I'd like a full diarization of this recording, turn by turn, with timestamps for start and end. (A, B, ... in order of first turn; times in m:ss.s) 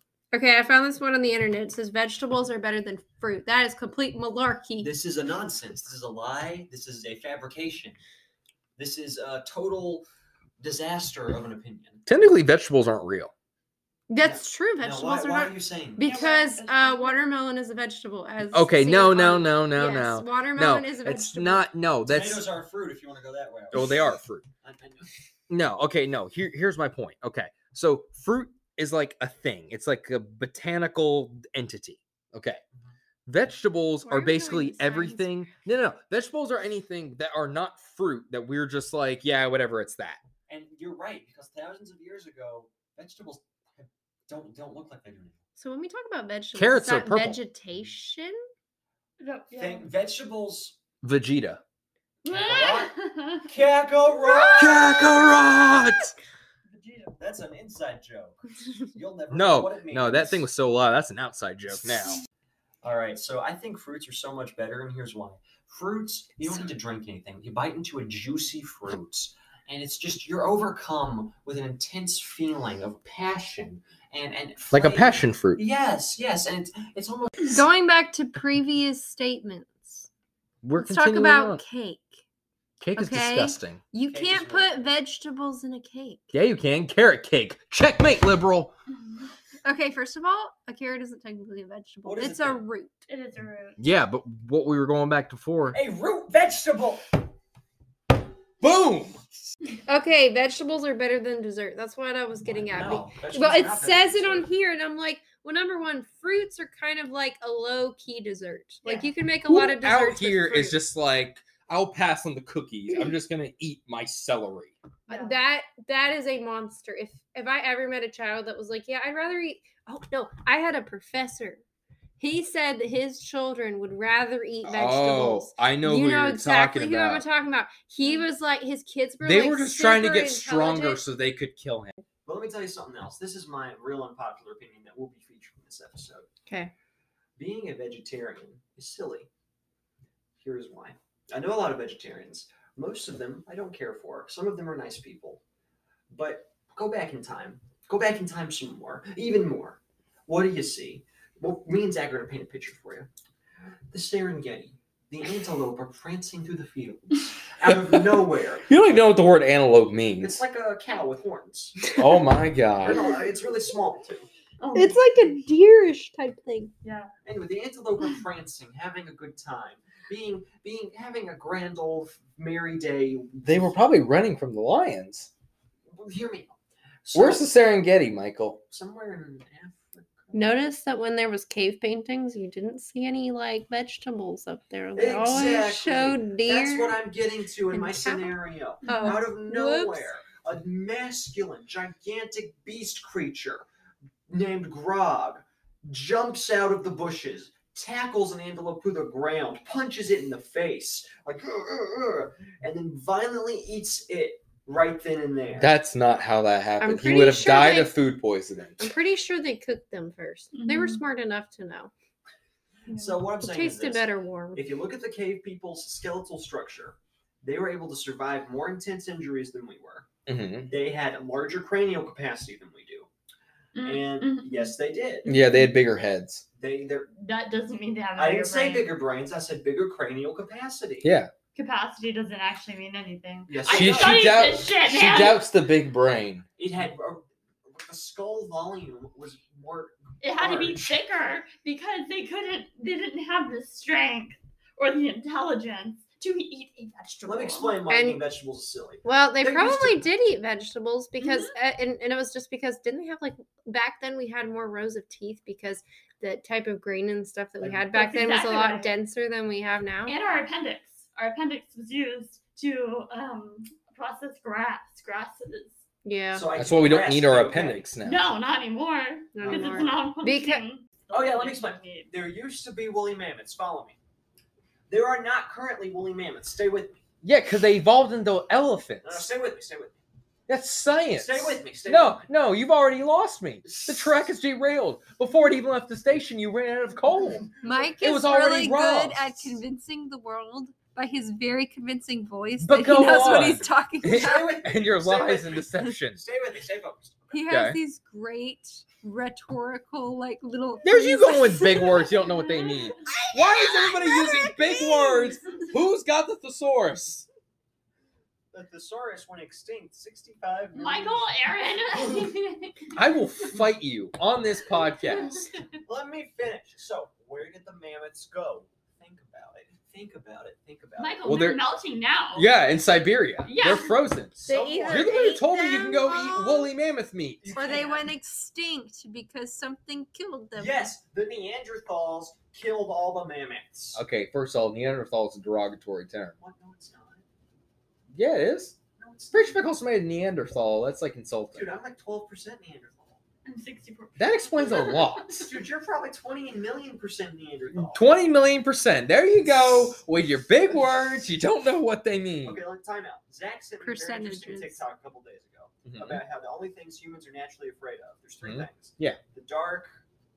0:00.3-0:04.9 A
0:04.8-0:08.0 B
0:08.8-0:10.1 B
0:10.6-0:12.1 B
0:12.1-0:13.3 C
0:14.1-0:21.6 A
0:14.2-0:16.2 B
0:16.0-0:17.2 D
0:18.5-0:22.5 C
0:22.1-0:24.1 B
0:23.7-0:24.5 C
0:23.8-0:24.0 A
0:24.6-0:25.1 B
0:25.5-0:32.6 C
0:33.3-0:40.2 C
0:34.0-0:35.3 A
0:40.5-0:45.4 B
0:45.6-0:48.4 A
0:46.6-0:47.4 C
0:49.2-0:49.9 D
0:49.5-0:50.8 B
0:51.0-0:51.6 C
0:52.2-0:53.5 D
0:52.3-0:52.9 B
0:53.4-0:55.1 B
0:54.6-0:56.2 C
0:56.7-0:57.2 D
0:57.2-1:00.4 B
0:59.3-1:02.2 C
1:02.8-1:17.6 B
1:14.7-1:15.6 C
1:17.4-1:20.1 A
1:20.6-1:21.6 C
1:20.8-1:22.2 A
1:22.8-1:23.8 C
1:23.0-1:26.3 A
1:24.1-1:24.8 B
1:26.3-1:28.7 C
1:29.6-1:33.0 A
1:32.0-1:32.6 B
1:33.1-1:33.8 D
1:33.8-1:35.8 C
1:35.7-1:37.2 B
1:38.6-1:39.3 C
1:39.9-1:50.8 A
1:42.4-1:44.5 B
1:49.5-1:54.8 C
1:55.1-1:55.4 D
1:55.1-2:01.6 A
2:02.2-2:11.0 A
2:04.6-2:07.2 C
2:08.0-2:08.3 D
2:09.2-2:12.0 C
2:12.3-2:16.3 B
2:16.5-2:16.7 A
2:17.4-2:19.3 B
2:20.4-2:25.4 B
2:26.1-2:33.1 B
2:33.9-2:38.7 B
2:38.7-2:40.4 C
2:40.2-2:41.9 B
2:42.0-2:43.2 C
2:42.8-2:44.3 B
2:44.6-2:45.0 D
2:44.8-2:46.7 A
2:46.8-2:47.1 D
2:47.2-2:53.8 B
2:53.5-2:55.3 C
2:55.9-2:57.5 B
2:57.1-2:58.6 C
2:58.7-3:00.6 B
3:00.3-3:07.0 A
3:05.0-3:13.7 B
3:07.7-3:10.1 A
3:08.8-3:09.2 D
3:14.3-3:25.7 B
3:25.6-3:28.9 C
3:26.8-3:27.9 A
3:28.8-3:31.9 A
3:30.5-3:31.0 D
3:32.9-3:33.2 D
3:32.9-3:40.1 B
3:33.4-3:34.6 A
3:40.3-3:40.7 C
3:40.7-3:43.1 B
3:43.8-3:44.7 D
3:43.8-3:45.3 B
3:45.3-3:46.5 C
3:45.3-3:45.7 D
3:46.6-3:47.1 B
3:47.2-3:48.9 D
3:48.2-3:51.1 B
3:51.0-3:51.3 C
3:51.5-3:55.4 D
3:53.5-3:54.5 B
3:53.7-3:56.5 C
3:56.6-4:01.0 B
4:00.2-4:07.8 D
4:07.2-4:10.0 B
4:07.9-4:08.2 A
4:09.0-4:20.2 A
4:11.2-4:11.5 D
4:17.6-4:17.8 B
4:17.9-4:19.0 D
4:20.1-4:25.8 D
4:26.0-4:26.5 A
4:26.3-4:27.8 B
4:26.5-4:28.2 C
4:28.0-4:32.1 D
4:29.4-4:30.6 A
4:29.4-4:30.0 B
4:31.1-4:34.0 B
4:34.9-4:37.0 B
4:37.2-4:39.3 C
4:39.0-4:40.0 B
4:40.5-4:49.5 C
4:41.2-4:42.2 B
4:43.7-4:44.2 B
4:47.6-4:54.6 A
4:52.6-4:56.2 C
4:54.0-4:57.4 B
4:57.3-5:02.1 A
4:57.5-4:57.8 C
5:00.8-5:07.3 C
5:02.2-5:02.9 D
5:03.0-5:05.6 A
5:08.5-5:11.2 B
5:10.8-5:12.9 D
5:13.0-5:15.5 C
5:15.3-5:15.5 D
5:15.8-5:21.3 B
5:21.0-5:22.5 D
5:21.3-5:21.6 C
5:22.3-5:27.6 C
5:23.4-5:24.0 D
5:24.4-5:25.2 B
5:24.4-5:26.7 A
5:27.4-5:28.1 B
5:27.5-5:30.9 A
5:30.6-5:34.0 B
5:34.0-5:36.4 C
5:36.4-5:37.2 B
5:38.1-5:38.8 C
5:39.0-5:39.6 B
5:39.3-5:41.7 C
5:41.5-5:43.2 B
5:43.4-5:45.4 D
5:44.2-5:45.5 C
5:45.3-5:48.0 B
5:47.8-5:52.6 C
5:52.4-6:00.0 B
5:53.8-5:54.8 A
5:55.8-5:56.2 C
5:58.4-5:59.2 C